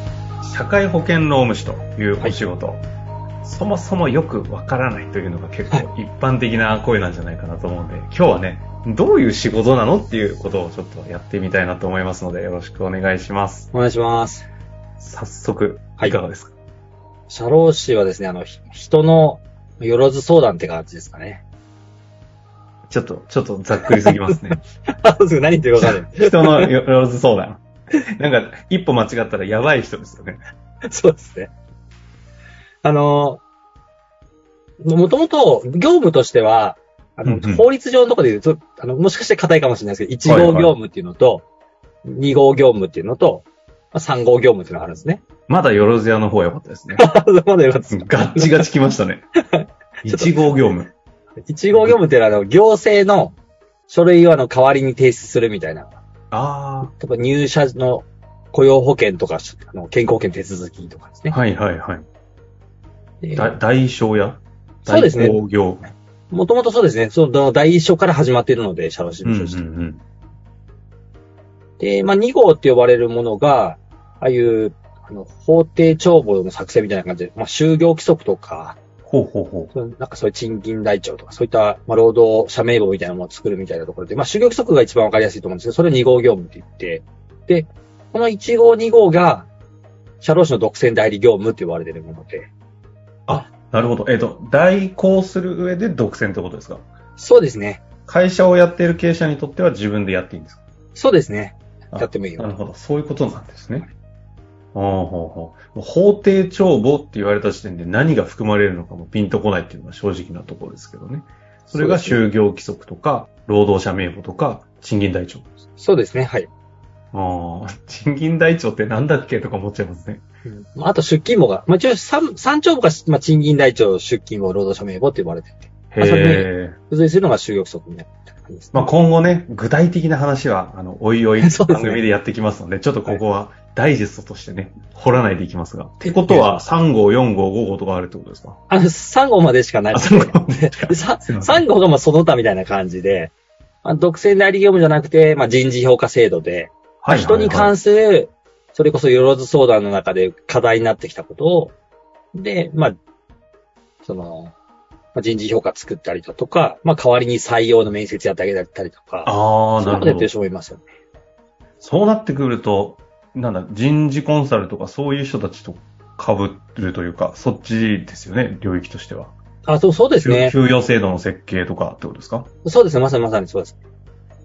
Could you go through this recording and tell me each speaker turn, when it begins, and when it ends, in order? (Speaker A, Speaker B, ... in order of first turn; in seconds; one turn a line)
Speaker A: 0.4-2.8
Speaker A: 3.4-13.7
Speaker B: 13.7-14.5
Speaker A: 15.0-16.5
Speaker B: 17.3-21.4
Speaker A: 22.9-24.6
Speaker B: 23.9-26.7
Speaker A: 25.8-27.6
Speaker A: 28.2-30.4
Speaker B: 30.9-31.5
Speaker B: 32.8-33.4
Speaker B: 34.8-41.5
Speaker A: 37.2-37.6
Speaker A: 40.2-40.7
Speaker B: 42.0-45.2
Speaker A: 45.5-47.0
Speaker B: 47.0-48.7
Speaker A: 47.9-49.2
Speaker B: 49.5-50.5
Speaker A: 50.0-50.9
Speaker B: 51.5-53.4
Speaker B: 53.9-56.0
Speaker A: 56.3-56.9
Speaker B: 56.9-61.4
Speaker A: 61.3-62.1
Speaker B: 63.2-63.5
Speaker A: 63.4-65.9
Speaker B: 64.9-65.4
Speaker B: 66.3-69.6
Speaker A: 69.2-70.0
Speaker B: 71.8-78.8
Speaker A: 79.0-79.7
Speaker B: 79.7-89.5
Speaker B: 90.2-92.5
Speaker A: 93.3-96.9
Speaker B: 97.2-97.8
Speaker A: 98.1-100.6
Speaker B: 100.9-102.5
Speaker A: 101.9-103.9
Speaker A: 104.7-115.5
Speaker B: 111.7-112.2
Speaker B: 115.8-116.5
Speaker A: 117.1-120.2
Speaker B: 120.4-128.9
Speaker A: 125.9-126.8
Speaker A: 128.7-138.6
Speaker B: 131.4-132.0
Speaker B: 136.0-136.6
Speaker B: 138.7-151.8
Speaker A: 139.9-141.6
Speaker A: 147.0-147.7
Speaker B: 152.3-152.9
Speaker B: 154.0-154.5
Speaker B: 155.1-160.8
Speaker A: 159.2-160.3
Speaker A: 161.8-169.3
Speaker B: 169.6-170.6
Speaker A: 170.2-172.5
Speaker B: 172.6-173.8